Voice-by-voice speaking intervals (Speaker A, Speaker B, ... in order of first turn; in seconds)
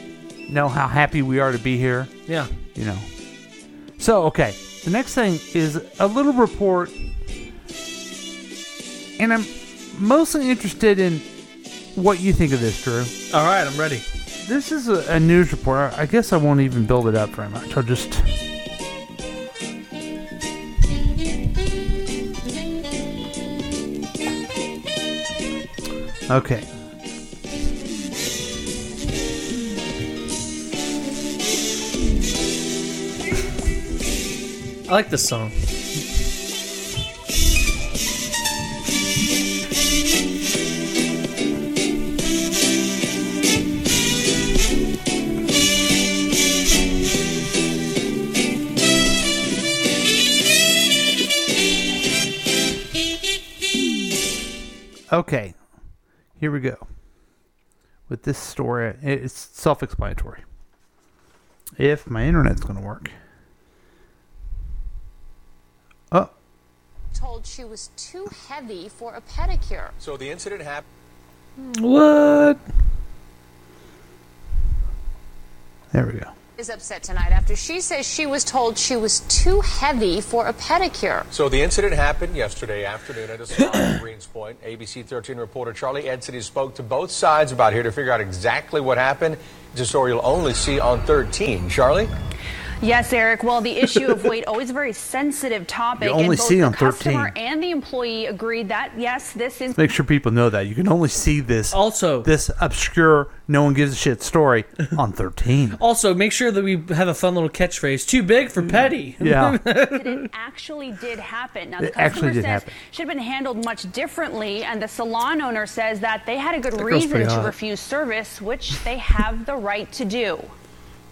Speaker A: 0.5-2.1, 2.7-3.1, 4.0-7.0, 9.2-11.3, 11.9-13.1, 14.4-18.3, 26.3-26.7, 55.1-55.6, 56.4-56.9, 58.1-60.4, 61.8-63.1, 75.9-76.3, 96.0-97.3, 99.7-105.8, 109.2-109.6, 111.8-112.7
Speaker B: 13.3-14.0, 34.9-35.6, 71.6-72.6, 101.7-102.3, 105.8-110.3, 116.7-117.5
Speaker C: 67.1-69.9, 76.6-81.3
Speaker D: 70.0-70.8, 81.3-92.1
Speaker E: 92.8-99.7, 110.0-120.3